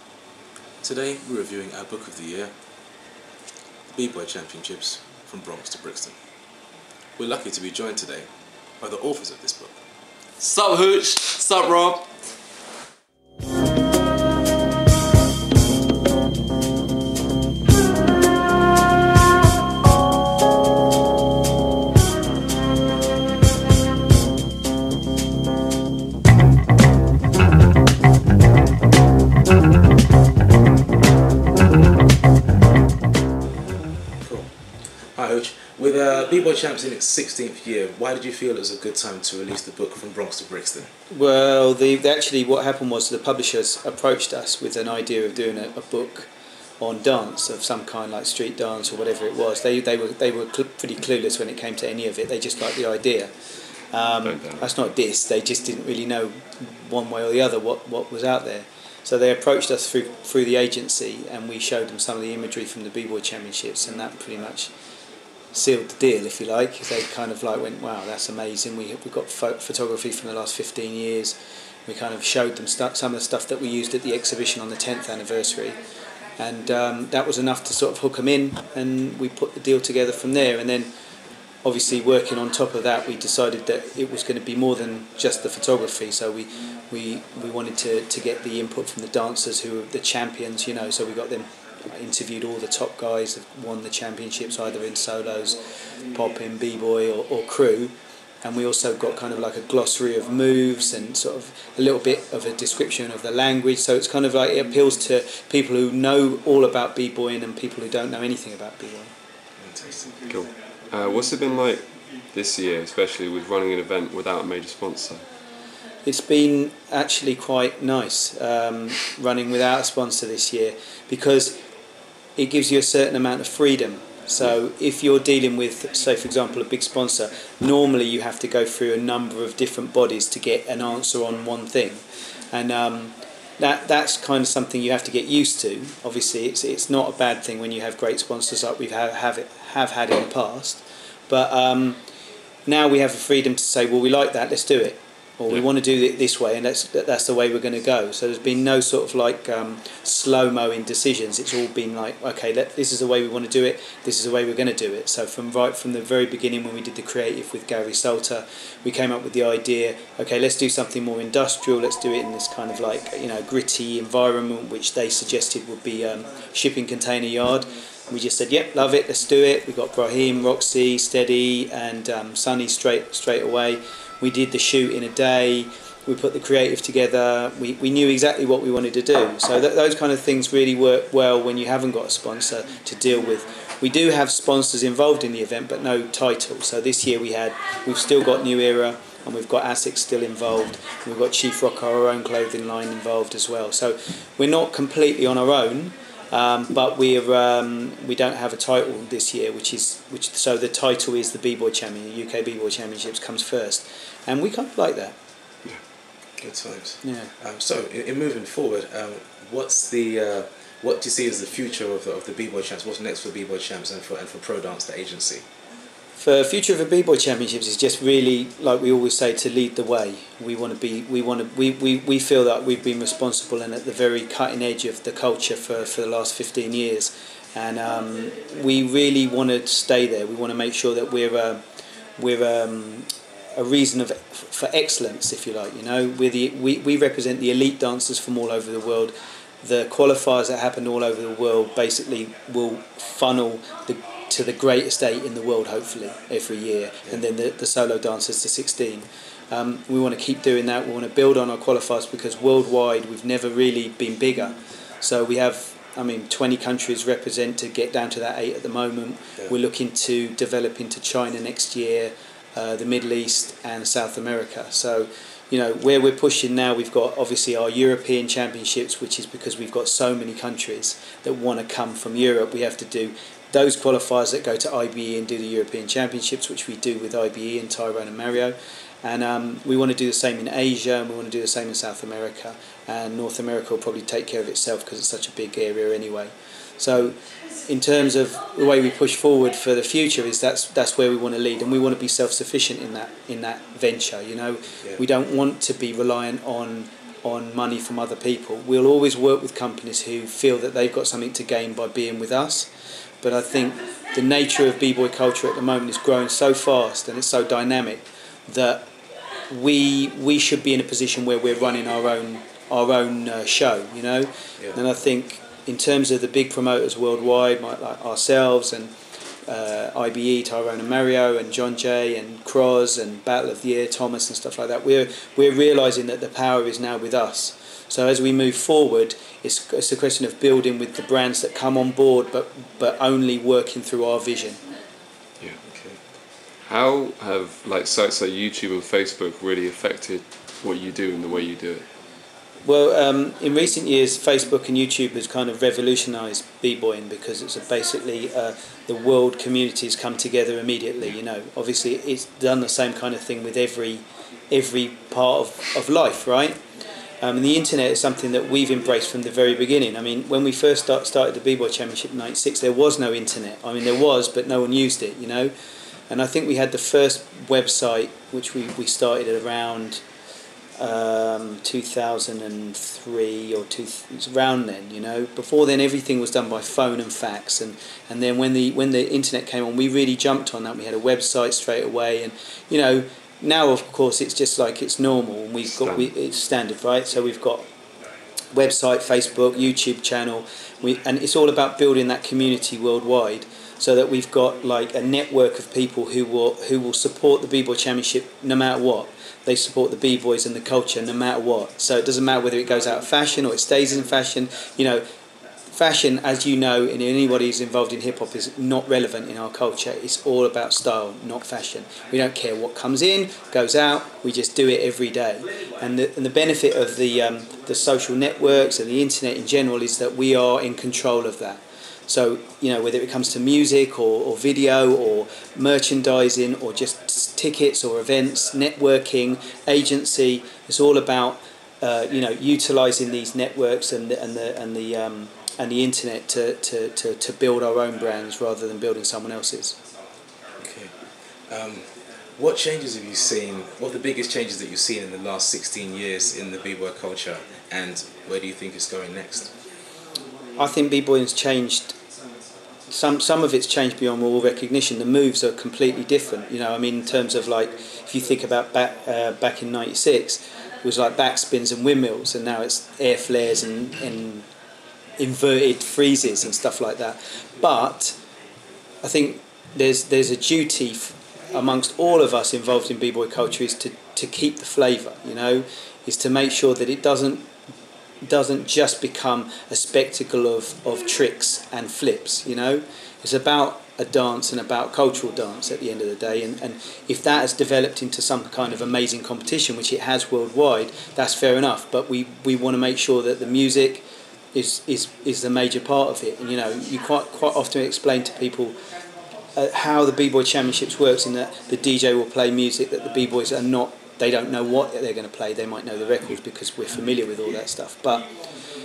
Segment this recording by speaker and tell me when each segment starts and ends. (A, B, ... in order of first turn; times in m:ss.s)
0:00.8-0:02.6 A
0:03.9-0:06.2 A
0:07.2-0:09.8 A
0:10.4-0:12.1 B
0:34.2-0:40.9 A
0:41.1-0:46.3 C
0:46.8-0:53.3 C
0:53.9-1:04.7 C
0:54.2-0:54.6 B
1:05.5-1:15.8 C
1:16.4-1:20.9 C
1:21.6-1:49.1 C
1:49.6-1:50.2 A
1:50.2-1:55.3 B
1:56.0-2:01.6 C
2:02.4-2:22.0 C
2:22.6-3:25.2 C
3:26.4-3:35.4 A
3:27.0-3:27.3 C
3:36.2-3:51.6 C
3:52.2-5:02.7 C
5:03.2-5:08.9 C
5:09.5-5:18.9 C
5:19.4-5:34.6 C
5:35.6-5:36.0 A
5:36.6-5:41.9 B
5:42.6-5:56.6 C
5:57.2-6:05.5 C
6:06.1-6:10.0 C
6:10.8-6:27.6 C
6:25.8-6:26.0 B
6:28.5-6:45.0 C
6:45.7-7:19.8 C
7:20.6-7:20.9 A
7:21.4-7:29.5 A
7:30.6-7:32.0 C
7:32.9-7:44.5 C
7:45.2-7:48.2 C
7:49.0-7:57.5 C
7:58.2-8:18.8 C
8:19.5-8:28.3 C